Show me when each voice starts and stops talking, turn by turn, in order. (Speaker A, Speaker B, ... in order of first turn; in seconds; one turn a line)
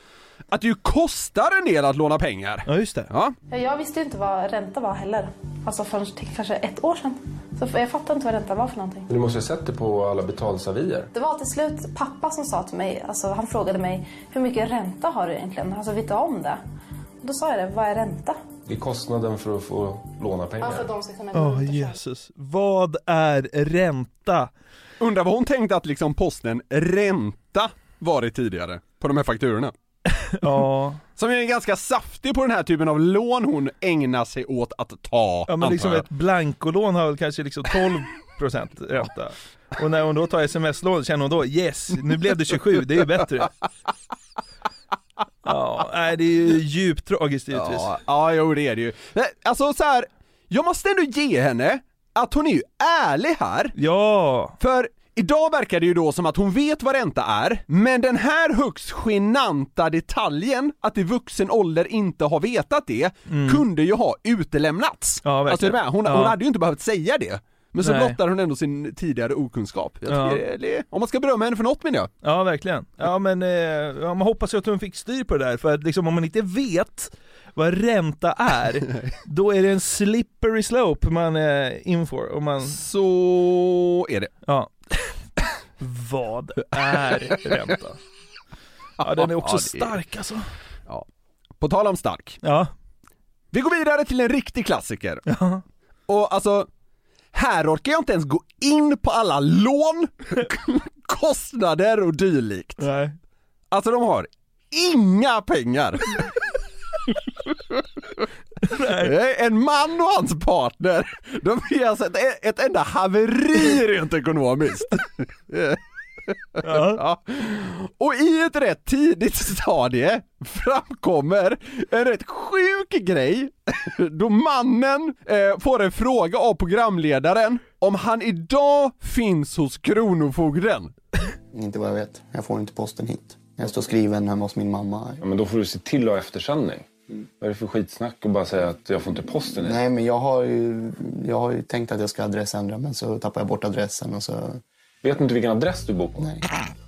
Speaker A: 0.5-3.4
Speaker B: 2.7-3.1
Speaker C: 3.5-9.1
Speaker D: 9.1-11.1
Speaker C: 11.1-16.6
Speaker C: 17.2-18.4
Speaker D: 18.7-20.9
Speaker C: 20.6-22.0
Speaker B: 21.3-24.5
Speaker A: 25.0-29.7
Speaker B: 30.4-31.0
Speaker A: 31.2-36.0
Speaker B: 35.5-43.5
Speaker B: 45.5-47.9
Speaker A: 47.5-53.7
Speaker B: 53.8-54.6
Speaker A: 54.6-72.1
Speaker B: 63.3-63.6
Speaker B: 65.2-66.4
Speaker B: 67.8-68.2
Speaker B: 70.1-70.4
Speaker B: 72.2-82.8
Speaker A: 82.7-84.3
Speaker B: 84.5-84.7
Speaker B: 85.8-88.0
Speaker A: 87.0-87.3
Speaker B: 89.0-90.5
Speaker A: 89.0-89.9
Speaker A: 91.6-92.4
Speaker B: 92.4-92.7
Speaker A: 93.5-95.2
Speaker B: 95.3-95.6
Speaker A: 96.1-96.7
Speaker A: 97.3-102.8
Speaker B: 102.8-103.2
Speaker A: 103.7-106.1
Speaker B: 108.7-109.1
Speaker A: 109.0-130.9
Speaker B: 116.6-117.0
Speaker E: 131.5-135.2
Speaker D: 135.2-139.8
Speaker E: 139.6-144.6
Speaker D: 145.0-146.3